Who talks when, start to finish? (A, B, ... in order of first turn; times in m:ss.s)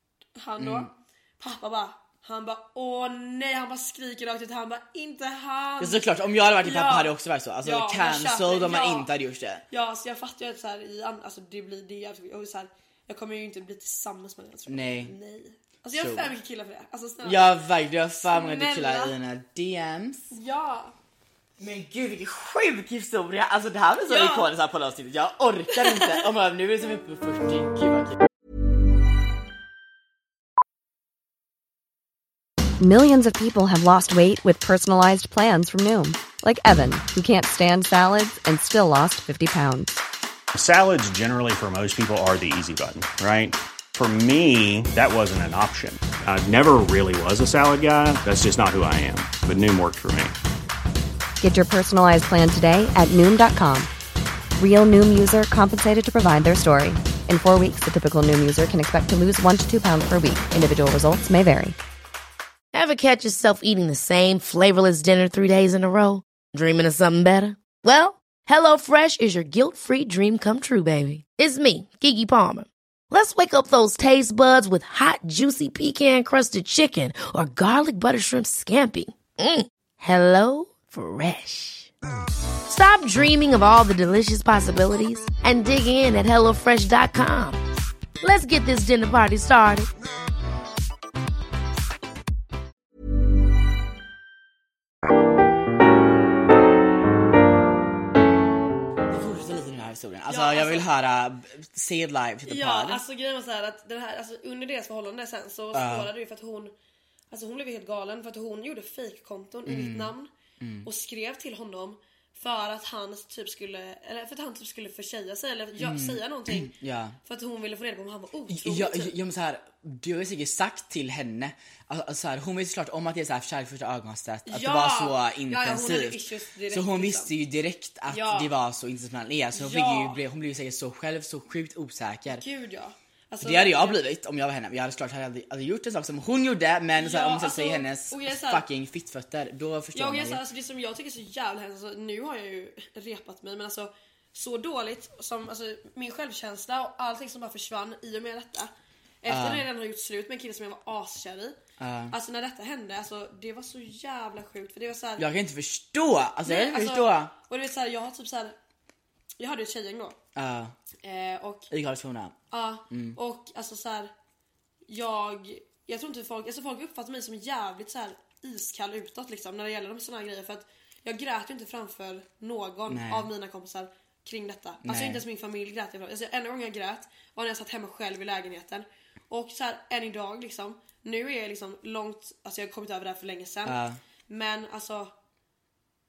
0:00.4-0:09.1 A
0:00.6-0:00.9 B
0:05.8-0:09.6 B
0:09.7-0:17.4 A
0:14.7-0:15.1 B
0:15.9-0:16.3 B
0:17.2-0:20.3 B
0:18.2-0:19.2 A
0:20.3-0:20.9 A
0:21.6-0:28.2 B
0:24.1-0:24.5 A
0:25.8-0:26.2 A
0:32.8-0:40.0 C
0:40.5-0:50.4 D
0:51.4-0:53.9 C
0:54.6-1:01.8 C
1:02.7-1:21.9 E
1:22.7-1:27.6 E
1:28.2-1:29.9 E
1:39.1-1:43.0 B
1:40.3-1:40.9 A
1:42.4-1:46.7 A
1:45.7-1:46.1 B
1:47.3-1:50.3 A
1:49.6-1:50.9 B
1:50.8-1:59.2 A
1:55.8-1:57.2 B
1:58.5-2:12.4 B
2:04.4-2:07.3 A
2:08.1-2:08.5 A
2:09.5-2:10.2 A
2:12.3-2:14.1 A
2:13.4-2:20.4 B
2:17.0-2:18.6 A
2:19.9-2:28.7 A
2:29.2-2:31.6 A
2:29.3-2:29.6 B
2:31.8-2:32.1 B
2:32.1-2:35.2 A
2:35.2-2:37.3 B
2:36.4-2:38.5 A
2:39.4-2:40.2 A
2:40.4-2:40.7 B
2:41.0-2:41.7 A
2:41.7-2:42.4 B
2:42.5-2:44.1 A
2:42.9-2:43.2 B
2:44.9-3:05.1 A
2:52.9-2:53.3 B
2:54.8-2:55.2 B
3:03.6-3:04.0 B